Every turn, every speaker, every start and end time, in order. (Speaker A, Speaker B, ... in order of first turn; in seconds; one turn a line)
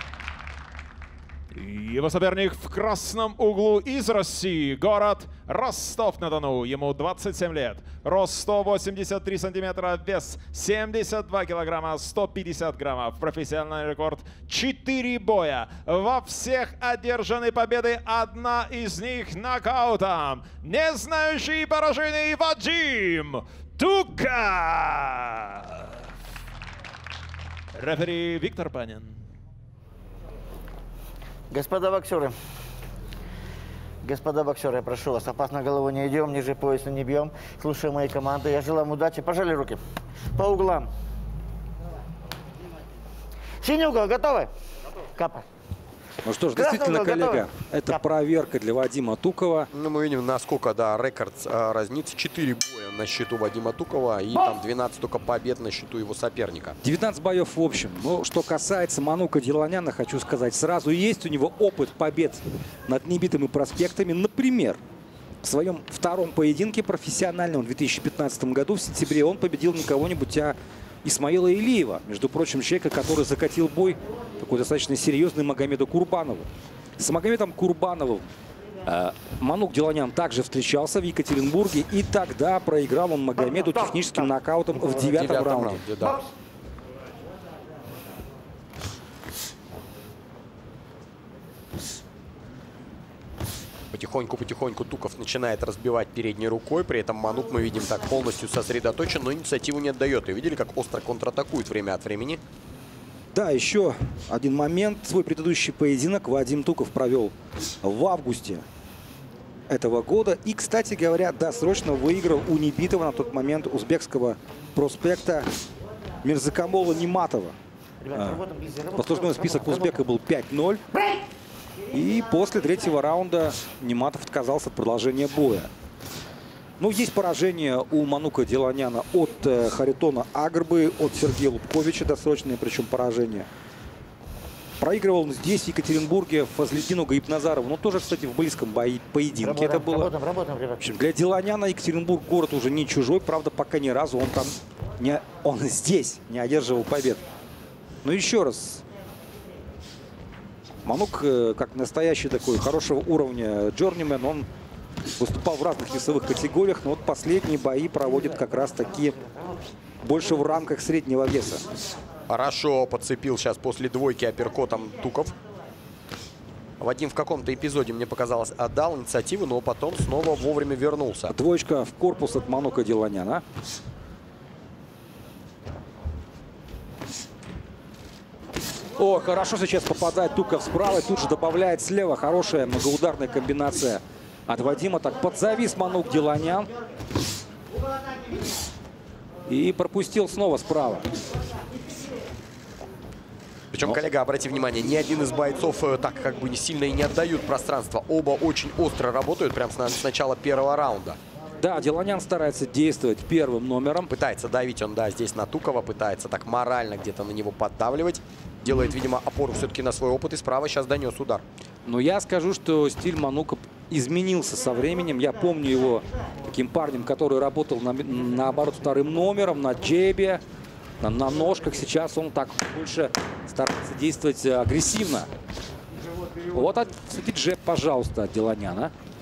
Speaker A: 1.5-25.9
Speaker A: 27.7-29.2
Speaker B: 31.5-32.3
Speaker B: 34.0-39.8
Speaker B: 40.4-40.9
Speaker B: 43.6-44.5
Speaker B: 45.1-45.5
Speaker C: 46.2-49.7
Speaker B: 46.5-48.0
Speaker D: 49.7-56.8
Speaker C: 56.8-64.8
Speaker C: 65.4-76.5
Speaker C: 77.0-78.3
Speaker C: 78.8-85.8
Speaker B: 83.6-84.2
Speaker D: 85.0-86.2
Speaker D: 93.9-102.4
Speaker C: 103.3-108.6
Speaker C: 109.7-115.5
Speaker C: 116.2-117.5
Speaker B: 118.0-120.0
Speaker C: 118.2-118.4
Speaker C: 119.0-120.8
Speaker C: 121.9-125.7
Speaker C: 126.8-133.5
Speaker C: 134.8-140.1
Speaker B: 139.4-140.8
Speaker C: 140.8-147.2
Speaker C: 148.0-148.8
Speaker C: 150.8-154.5
Speaker C: 155.2-159.2
Speaker C: 160.0-161.6
Speaker D: 162.3-165.3
Speaker D: 166.8-171.3
Speaker C: 171.3-173.4
Speaker C: 179.0-186.7
Speaker C: 189.5-191.1
Speaker D: 193.7-201.2
Speaker C: 201.6-204.1
Speaker D: 204.1-211.4
Speaker C: 211.8-220.4
Speaker C: 221.0-225.3
Speaker C: 226.5-228.9